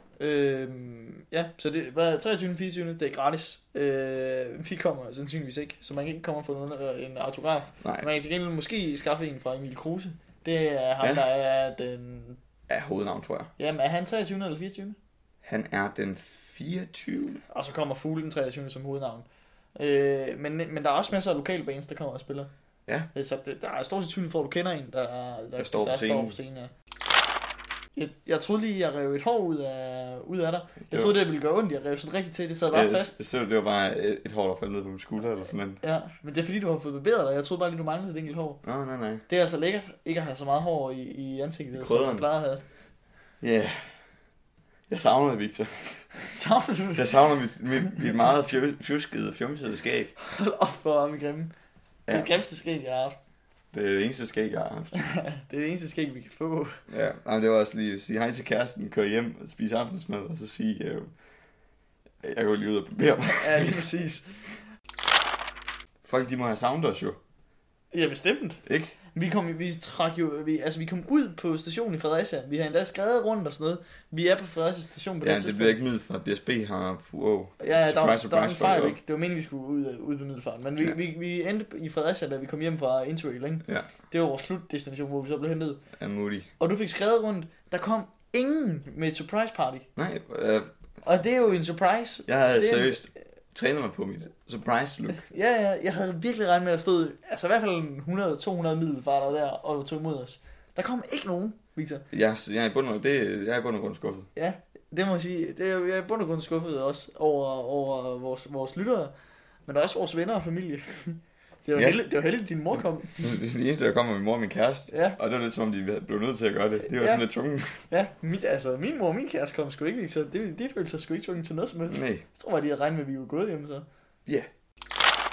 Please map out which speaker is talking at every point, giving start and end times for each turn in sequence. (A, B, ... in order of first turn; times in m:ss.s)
0:00.2-0:12.4 A
0:12.7-0:13.5 B
0:13.6-0:15.0 A
0:15.4-0:17.4 B
0:17.5-0:22.5 A
0:23.1-0:26.7 A
0:25.6-0:26.4 B
0:28.0-0:33.1 A
0:30.9-0:31.1 B
0:32.7-0:35.8 B
0:35.8-0:38.6 A
0:38.6-0:39.2 B
0:39.3-0:42.6 A
0:41.7-0:42.2 B
0:43.4-0:44.0 B
0:44.9-0:46.1 B
0:46.1-0:47.2 A
0:46.9-0:50.1 B
0:50.2-0:51.5 A
0:52.1-0:53.2 A
0:53.7-0:55.1 B
0:54.9-0:56.8 A
0:56.9-1:01.1 B
1:02.2-1:03.8 B
1:03.2-1:04.4 A
1:06.0-1:07.2 B
1:07.9-1:08.6 A
1:08.6-1:08.9 B
1:09.1-1:15.8 A
1:15.2-1:19.0 B
1:17.6-1:25.8 A
1:26.0-1:26.5 B
1:26.6-1:29.9 A
1:30.0-1:30.7 B
1:31.0-1:33.0 A
1:32.3-1:35.2 B
1:35.1-1:42.0 A
1:42.1-1:44.3 B
1:44.4-1:49.1 A
1:49.7-1:53.3 A
1:53.2-1:57.8 B
1:54.9-1:55.2 A
1:56.8-1:57.2 A
1:57.9-2:03.8 A
2:01.9-2:02.2 B